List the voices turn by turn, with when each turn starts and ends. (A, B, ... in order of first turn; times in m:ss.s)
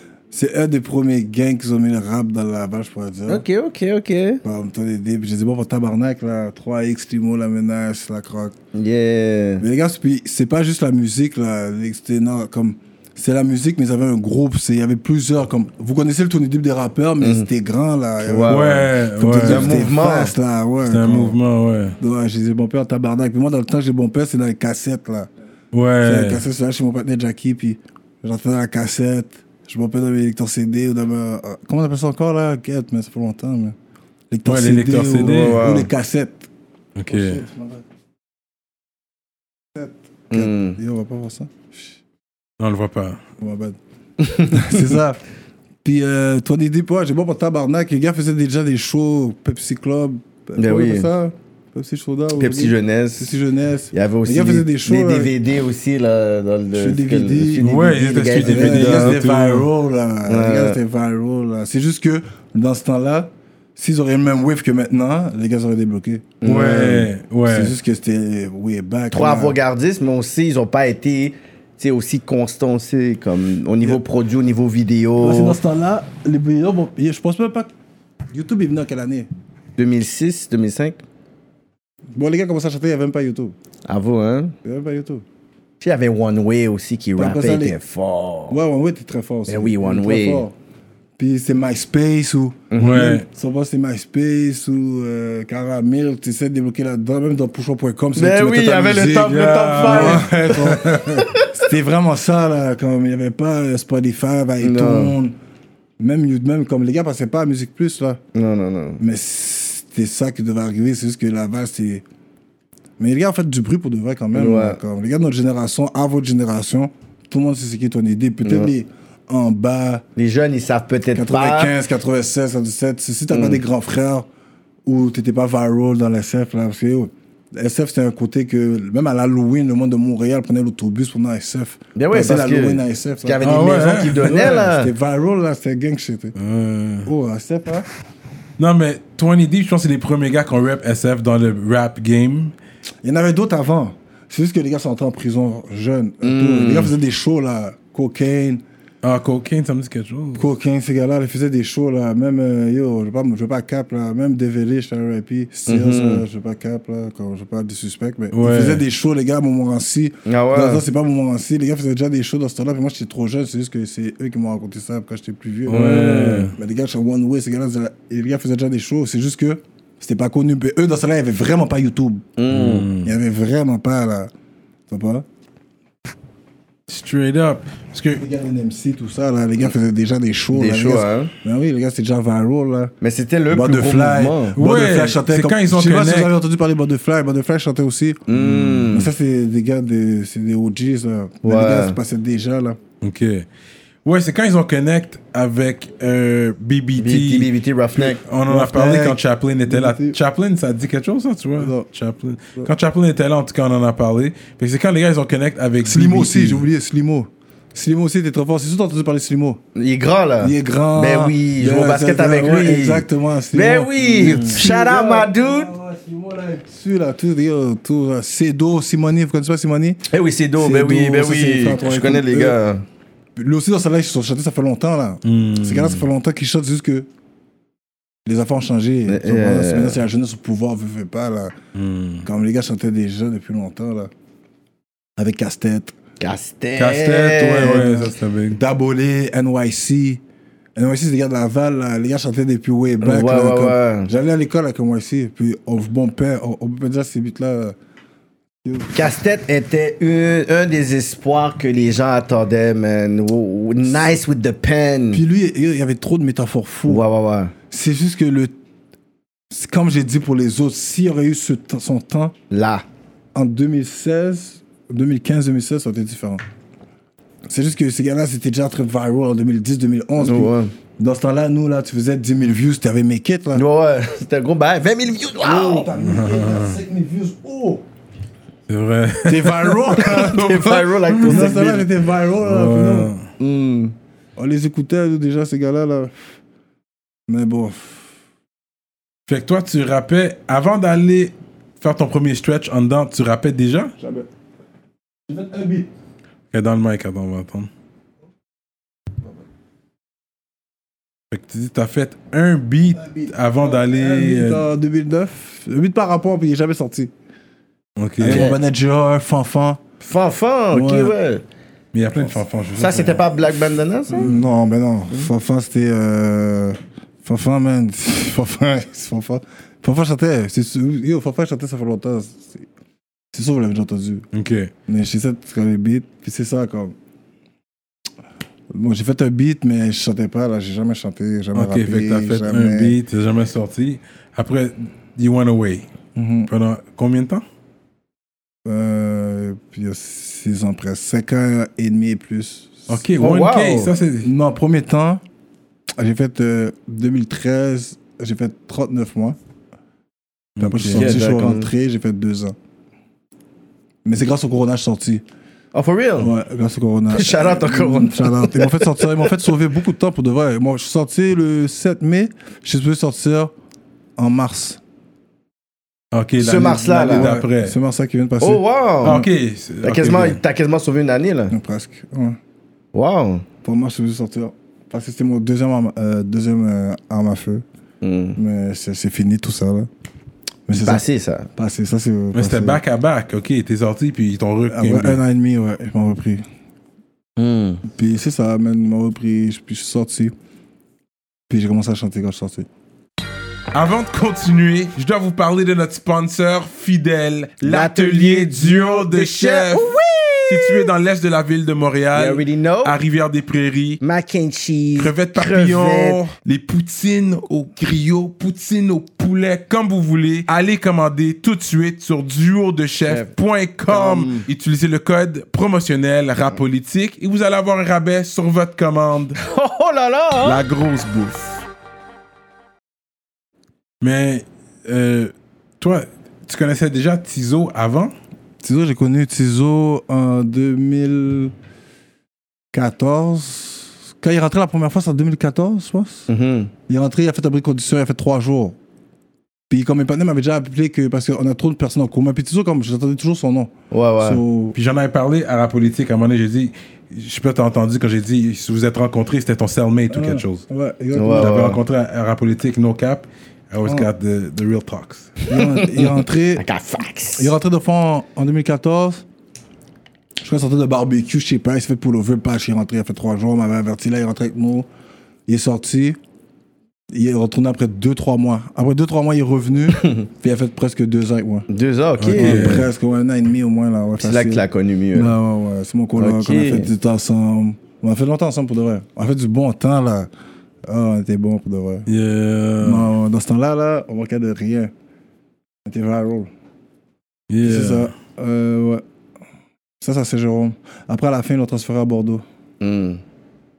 0:00.3-0:03.4 A
0:03.3-0:04.4 B
0:04.4-0:08.5 A
0:08.7-0:09.6 B
0:09.6-0:21.4 A
0:17.2-0:17.5 B
0:18.2-0:18.9 B
0:18.5-0:19.9 C
0:19.4-0:20.3 B
0:20.8-0:22.0 C
0:22.0-0:25.3 A
0:25.7-0:26.4 C
0:26.0-0:33.8 A
0:34.3-0:36.5 A
0:34.5-0:35.7 C
0:35.2-0:35.9 B
0:37.0-0:37.4 C
0:37.1-0:37.8 A
0:39.7-0:42.0 A
0:40.3-0:40.8 B
0:42.6-0:43.2 C
0:43.4-0:43.8 A
0:44.2-0:44.9 B
0:44.5-0:45.2 A
0:45.8-0:55.3 A
0:50.6-0:51.1 B
0:52.4-0:53.3 B
0:53.9-0:59.2 B
0:56.7-1:06.4 A
0:57.6-0:59.7 C
1:00.3-1:00.8 B
1:06.4-1:07.1 B
1:06.4-1:07.7 C
1:07.5-1:09.6 A
1:09.1-1:15.6 B
1:15.2-1:17.7 A
1:18.3-1:19.3 A
1:19.8-1:21.0 B
1:22.1-1:23.6 A
1:23.9-1:24.6 B
1:24.6-1:25.2 A
1:25.8-1:28.6 B
1:27.2-1:27.8 A
1:28.5-1:30.5 A
1:29.5-1:30.4 B
1:31.2-1:45.4 A
1:32.7-1:33.2 B
1:32.8-1:33.2 C
1:38.2-1:41.5 B
1:39.2-1:41.2 C
1:44.6-1:45.1 B
1:46.0-1:48.2 A
1:48.4-1:49.0 B
1:49.0-1:52.0 A
1:53.0-2:00.1 A
1:54.3-1:54.8 B
1:58.4-1:58.7 B
2:00.2-2:01.7 B
2:01.1-2:04.3 A
2:03.3-2:03.6 B
2:04.9-2:13.4 A
2:12.0-2:14.9 B
2:13.4-2:14.4 C
2:14.2-2:16.4 A
2:16.4-2:17.1 C
2:17.0-2:17.9 A
2:18.6-2:22.5 C
2:23.0-2:28.6 A
2:26.2-2:26.9 B
2:29.0-2:30.5 C
2:30.4-2:52.3 A
2:35.7-2:36.2 B
2:38.3-2:38.8 C
2:40.3-2:40.8 B
2:45.7-2:46.6 C
2:45.7-2:46.5 B
2:52.4-2:52.9 B
2:52.5-2:53.1 C
2:53.0-2:54.3 A
2:54.9-2:55.3 A
2:56.9-2:58.2 C
2:58.2-3:02.9 A
3:00.5-3:01.3 B
3:03.0-3:04.6 B
3:03.5-3:08.3 A
3:04.6-3:06.3 C
3:08.3-3:09.1 B
3:08.3-3:08.9 C
3:08.9-3:12.8 A
3:11.4-3:12.0 B
3:13.0-3:13.5 C
3:14.0-3:26.7 C
3:17.0-3:18.2 B
3:18.5-3:20.2 A
3:21.6-3:21.9 A
3:25.8-3:29.6 A
3:29.8-3:35.7 B
3:30.4-3:40.0 A
3:34.2-3:34.6 C
3:40.1-3:42.8 B
3:40.6-3:42.6 A
3:43.4-3:47.1 A
3:45.2-3:46.0 C
3:48.3-3:51.6 A
3:49.1-3:50.0 B
3:51.8-3:52.3 C
3:52.2-3:54.1 A
3:55.2-3:56.0 A
3:56.2-3:58.0 B
3:56.8-3:58.6 C
3:57.6-4:00.2 A
4:00.8-4:07.8 A
4:03.0-4:04.1 B
4:08.6-4:09.1 A
4:08.9-4:15.2 B
4:15.1-4:17.0 A
4:16.9-4:17.5 B
4:17.7-4:18.6 A
4:19.5-4:22.3 A
4:22.5-4:22.8 B
4:23.3-4:26.4 A
4:27.5-4:33.6 A
4:30.2-4:30.7 B
4:33.6-4:35.9 B
4:35.4-4:37.8 A
4:36.0-4:36.8 C
4:38.7-4:40.3 C
4:39.2-4:43.1 A
4:39.9-4:41.9 B
4:41.1-4:41.6 C
4:42.4-4:43.2 C
4:43.4-4:43.9 B
4:44.4-4:46.2 A
4:47.3-4:48.1 A
4:49.3-4:53.9 C
4:54.0-4:54.3 A
4:55.3-4:55.9 A
4:56.5-4:57.7 C
5:01.3-5:04.7 C
5:03.0-5:07.1 A
5:08.0-5:08.5 C
5:08.2-5:09.8 A
5:08.2-5:08.6 B
5:10.0-5:11.4 B
5:10.7-5:11.1 A
5:11.9-5:13.2 C
5:12.8-5:14.3 B
5:14.1-5:22.7 A
5:23.3-5:24.3 A
5:24.3-5:24.7 C
5:24.9-5:27.0 A
5:28.7-5:33.0 A
5:31.6-5:35.9 C
5:36.2-5:36.5 A
5:36.5-5:37.4 C
5:38.6-5:43.0 A
5:42.9-5:44.3 C
5:43.2-5:43.9 B
5:44.2-5:45.2 A
5:46.0-5:49.4 A
5:50.6-5:51.1 C
5:50.6-5:52.6 A
5:50.9-5:51.7 B
5:54.0-5:55.2 A
5:55.7-5:56.3 B
5:56.2-6:03.5 A
5:57.1-5:59.3 B
6:04.2-6:04.8 A
6:06.1-6:07.8 C
6:06.4-6:07.3 B
6:07.1-6:09.3 A
6:08.4-6:09.2 B
6:09.0-6:10.4 C
6:09.8-6:11.6 B
6:11.5-6:12.4 A
6:12.9-6:13.5 B
6:13.6-6:17.6 A
6:18.0-6:18.4 B
6:18.4-6:19.9 A
6:20.7-6:22.8 A
6:20.8-6:21.5 B
6:22.3-6:25.2 C
6:24.7-6:26.4 A
6:27.4-6:27.8 B
6:27.8-6:30.3 A
6:31.5-6:32.7 A
6:33.7-6:44.0 C
6:37.6-6:40.9 B
6:42.1-6:43.0 B
6:44.0-6:46.2 B
6:45.0-6:59.4 C
6:53.1-6:53.3 B
6:53.9-6:54.5 B
6:59.4-7:00.6 B
7:00.4-7:01.6 C
7:04.0-7:08.1 C
7:08.6-7:11.5 A
7:12.7-7:16.3 A
7:16.3-7:16.7 B
7:16.9-7:18.8 A
7:19.7-7:24.8 A
7:23.9-7:24.4 B
7:24.8-7:30.6 C
7:30.1-7:31.8 A
7:31.1-7:31.8 B
7:31.3-7:35.4 C
7:35.5-7:36.6 A
7:35.5-7:37.5 B
7:37.4-7:39.2 A
7:40.4-7:44.9 A
7:45.5-7:46.2 A
7:47.1-7:51.7 A
7:49.9-7:50.2 B
7:51.7-7:52.9 B
7:52.2-7:52.9 C
7:52.4-8:00.3 A
7:54.2-7:55.4 B
7:56.2-7:56.9 B
8:00.9-8:02.1 A
8:02.1-8:03.1 C
8:02.8-8:04.9 A
8:05.9-8:06.5 A
8:07.5-8:08.1 C
8:07.6-8:09.0 A
8:10.0-8:12.4 A
8:12.8-8:13.2 B